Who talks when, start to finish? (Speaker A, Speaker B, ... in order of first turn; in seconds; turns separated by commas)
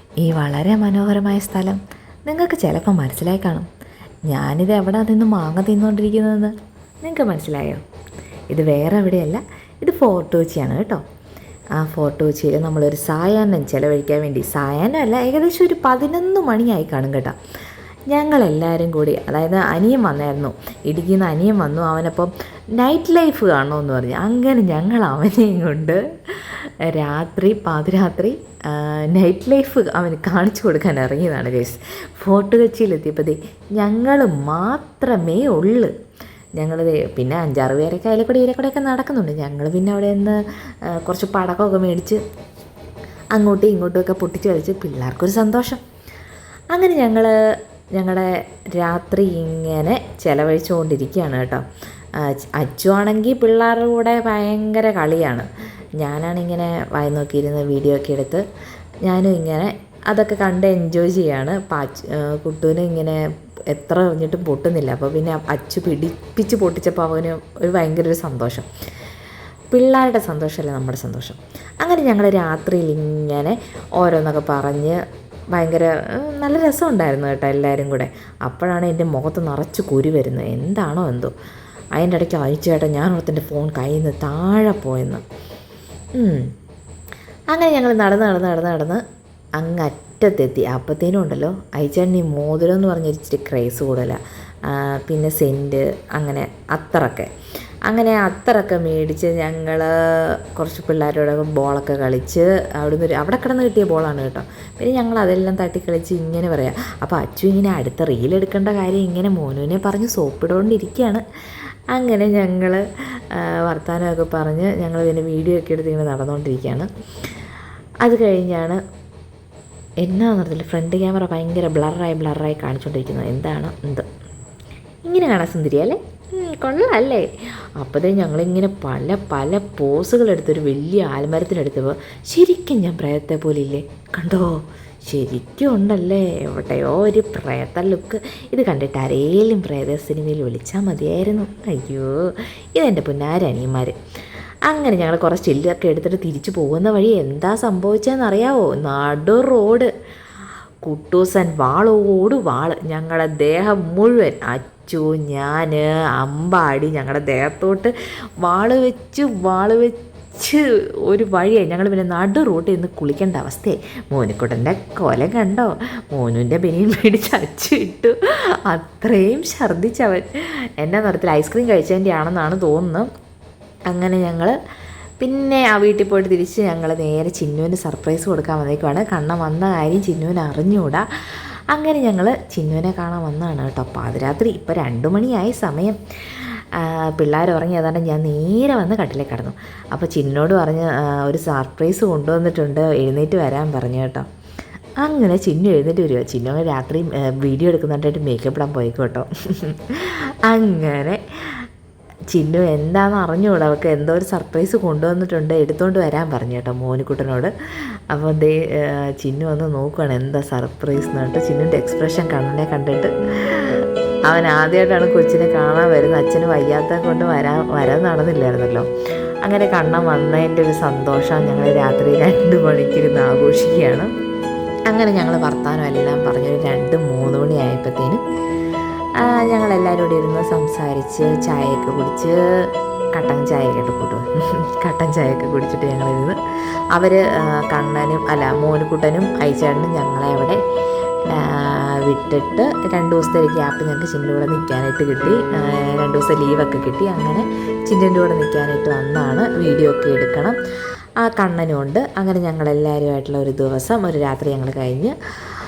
Speaker A: 0.2-3.7, Speaker A: 4.3-7.8, Speaker A: 8.5-11.0, Speaker A: 11.8-17.4, Speaker A: 18.1-35.9, Speaker A: 36.6-40.4, Speaker A: 40.9-42.2, Speaker A: 43.3-45.8, Speaker A: 46.7-47.3, Speaker A: 48.0-51.6, Speaker A: 52.2-55.5, Speaker A: 56.0-58.4, Speaker A: 59.0-68.7, Speaker A: 69.7-75.0, Speaker A: 75.5-81.3, Speaker A: 82.0-85.2, Speaker A: 86.2-86.5, Speaker A: 87.5-89.0, Speaker A: 89.6-97.3, Speaker A: 97.9-111.2, Speaker A: 111.9-116.9, Speaker A: 118.0-118.8, Speaker A: 120.0-124.1, Speaker A: 125.1-127.3, Speaker A: 127.8-144.0, Speaker A: 144.7-149.9, Speaker A: 150.8-173.1, Speaker A: 173.9-174.6, Speaker A: 175.2-181.0, Speaker A: 181.7-194.3, Speaker A: 195.0-201.6, Speaker A: 202.3-207.5, Speaker A: 208.1-218.9, Speaker A: 219.4-224.1, Speaker A: 224.9-228.2, Speaker A: 229.2-232.3, Speaker A: 233.1-236.4, Speaker A: 236.9-240.6, Speaker A: 241.3-250.6, Speaker A: 251.2-255.1